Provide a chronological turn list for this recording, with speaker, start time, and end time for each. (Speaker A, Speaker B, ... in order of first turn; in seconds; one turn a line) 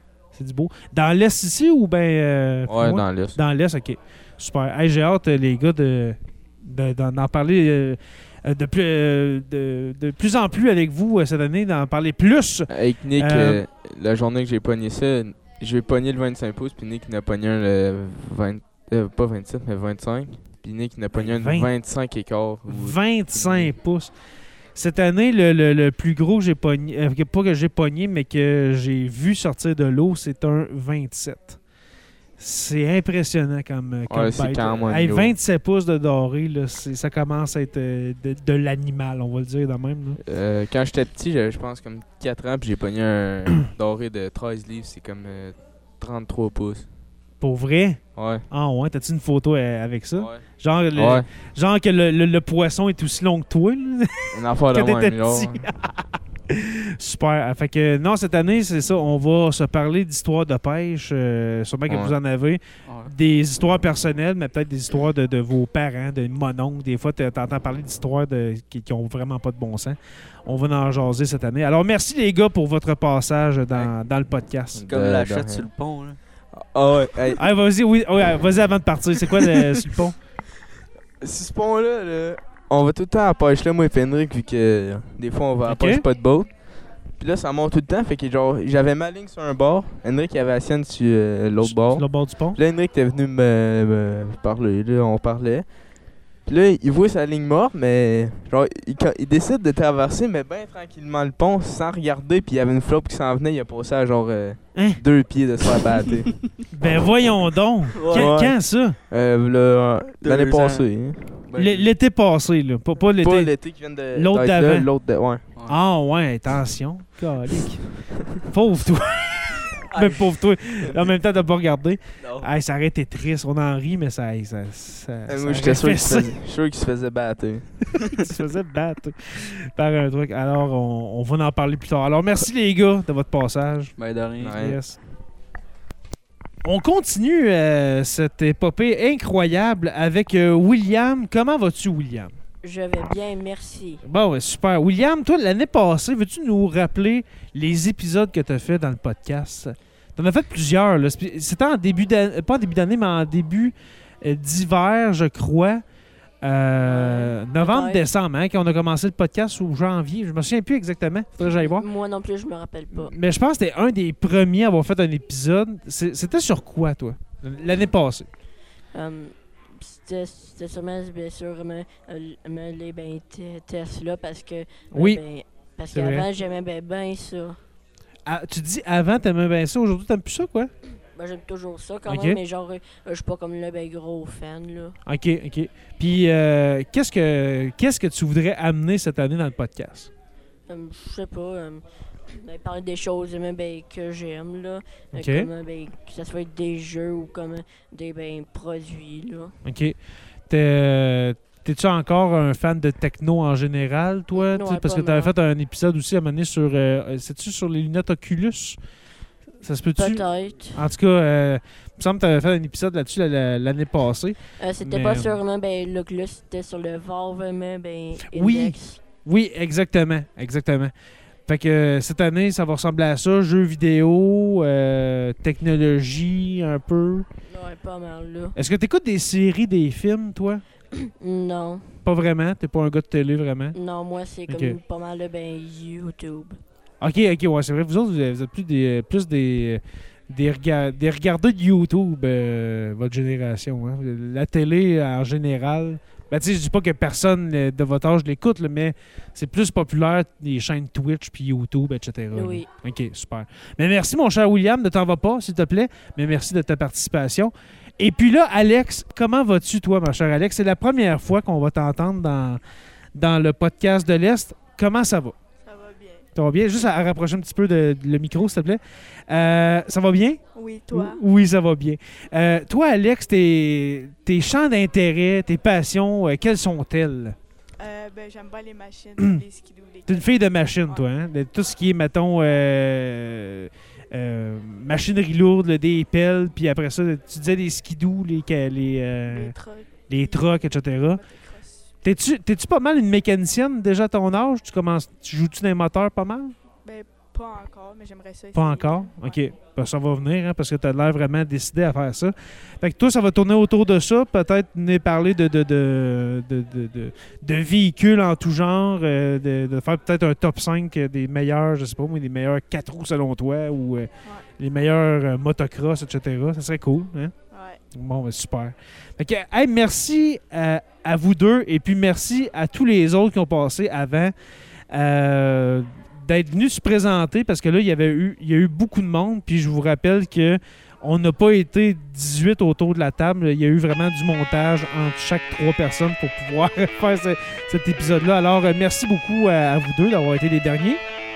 Speaker A: 0.3-13.6
Speaker B: 2.7-3.4
Speaker B: 12.7-23.7
Speaker A: 21.2-21.7
Speaker A: 22.7-24.1
Speaker A: 24.7-31.6
Speaker A: 32.4-40.2
Speaker B: 34.1-35.4
Speaker B: 40.2-46.9
Speaker A: 47.4-74.8
Speaker B: 48.1-48.4
Speaker B: 50.1-50.4
Speaker B: 50.9-51.3
Speaker B: 54.3-55.7
Speaker B: 61.9-62.1
Speaker C: 62.9-63.1
Speaker B: 74.7-75.7
Speaker C: 74.8-76.2
Speaker B: 76.5-77.4
Speaker A: 77.4-80.2
Speaker B: 81.2-95.7
Speaker A: 85.7-86.0
Speaker A: 91.6-92.6
Speaker B: 96.5-106.4
Speaker A: 104.7-105.0
Speaker A: 106.7-109.0
Speaker C: 107.9-108.3
Speaker B: 108.1-108.6
Speaker B: 109.1-111.5
Speaker C: 110.2-111.9
Speaker A: 111.6-114.9
Speaker B: 113.2-115.4
Speaker A: 115.7-117.9
Speaker A: 118.4-126.3
Speaker C: 119.9-120.4
Speaker C: 122.2-122.5
Speaker B: 125.3-128.3
Speaker A: 128.1-133.9
Speaker C: 134.0-134.6
Speaker B: 134.4-134.8
Speaker A: 134.5-135.0
Speaker A: 136.6-142.3
Speaker D: 142.6-144.0
Speaker A: 144.0-155.8
Speaker A: 156.4-161.9
Speaker D: 156.8-158.0
Speaker D: 161.4-163.1
Speaker A: 162.9-168.3
Speaker D: 168.9-177.6
Speaker A: 174.9-175.2
Speaker A: 175.9-176.3
Speaker A: 178.2-180.7
Speaker D: 181.1-185.0
Speaker A: 182.1-182.4
Speaker A: 185.1-190.1
Speaker D: 190.7-191.8
Speaker D: 192.4-199.6
Speaker A: 195.1-195.5
Speaker A: 199.6-200.0
Speaker A: 200.5-208.8
Speaker D: 204.3-205.3
Speaker A: 209.6-215.4
Speaker D: 209.9-210.8
Speaker D: 214.6-219.0
Speaker A: 218.3-220.9
Speaker A: 221.5-227.2
Speaker D: 227.5-228.6
Speaker A: 228.5-230.6
Speaker D: 231.1-232.0
Speaker A: 232.0-233.8
Speaker D: 233.7-236.6
Speaker A: 234.5-234.8
Speaker A: 237.0-262.6
Speaker D: 252.3-252.7
Speaker A: 263.1-265.3
Speaker E: 265.6-266.3
Speaker A: 266.4-277.4
Speaker E: 270.5-271.2
Speaker E: 277.8-280.3
Speaker A: 279.2-279.4
Speaker A: 280.1-289.5
Speaker E: 289.2-290.4
Speaker A: 290.1-291.2
Speaker E: 291.1-291.9
Speaker A: 292.0-296.5
Speaker E: 296.8-299.4
Speaker A: 298.5-317.3
Speaker E: 317.5-317.8
Speaker A: 317.9-324.3
Speaker A: 324.9-341.0